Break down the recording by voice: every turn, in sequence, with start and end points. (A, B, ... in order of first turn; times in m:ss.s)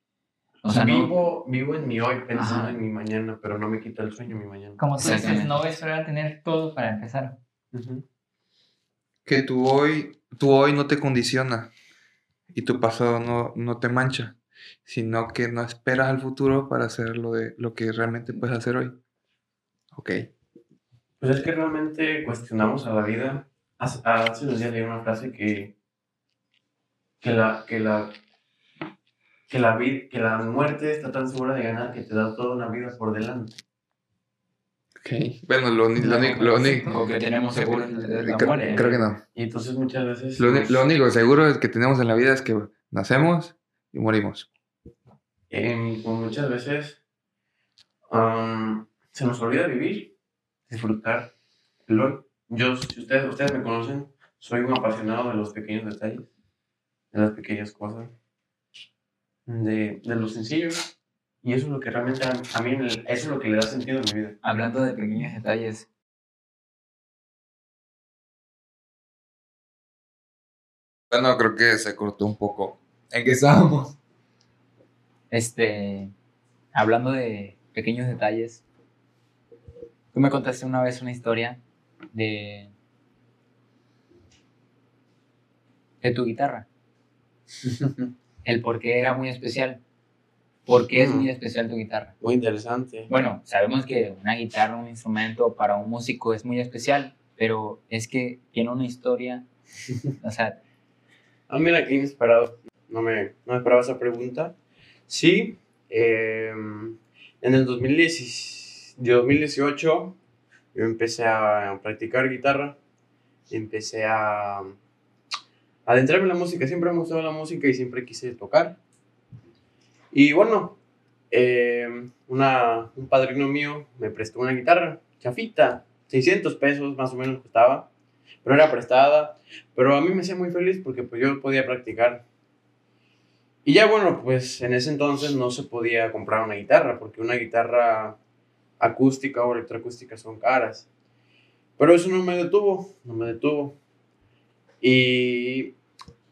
0:00.6-0:01.1 A
0:00.7-0:04.8 B
0:02.3-0:02.8 A
0:04.8-0:07.4 C
0:05.0-0:05.6 A
0:07.7-0:08.0 B
0:09.2-0:11.7 D
0:12.5-0:19.0 D
0:19.9-0:20.3 D
0:21.2-0:25.7 B
0:27.2-0:28.2 B
0:29.5-0:33.6 B
0:35.0-0:39.2 D
0:36.0-0:38.9 A
0:36.3-0:36.6 C
0:38.4-0:40.8 B
0:40.4-0:44.5 D
0:45.5-0:47.0 B
0:48.1-0:50.1 B
0:50.7-0:51.3 B
0:51.9-0:56.3 B
0:57.1-0:58.1 B
0:59.5-1:00.9 B
1:01.4-1:04.4 B
1:04.4-1:05.9 A
1:11.1-1:14.0 D
1:15.3-1:16.1 A
1:16.7-1:18.6 A
1:20.1-1:21.6 A
1:22.1-1:22.7 A
1:26.0-1:26.6 A
1:28.4-1:29.8 A
1:30.6-1:32.1 A
1:30.9-1:31.3 B
1:32.2-1:33.1 B
1:33.1-1:39.5 A
1:40.2-1:40.6 A
1:41.5-1:44.5 B
1:45.1-1:50.2 B
1:50.7-1:52.8 B
1:53.5-1:54.8 B
1:55.8-1:58.8 B
2:00.1-2:00.8 B
2:01.3-2:07.9 B
2:08.4-2:12.2 B
2:13.6-2:18.2 B
2:18.8-2:20.9 B
2:21.8-2:23.8 B
2:24.8-2:25.7 B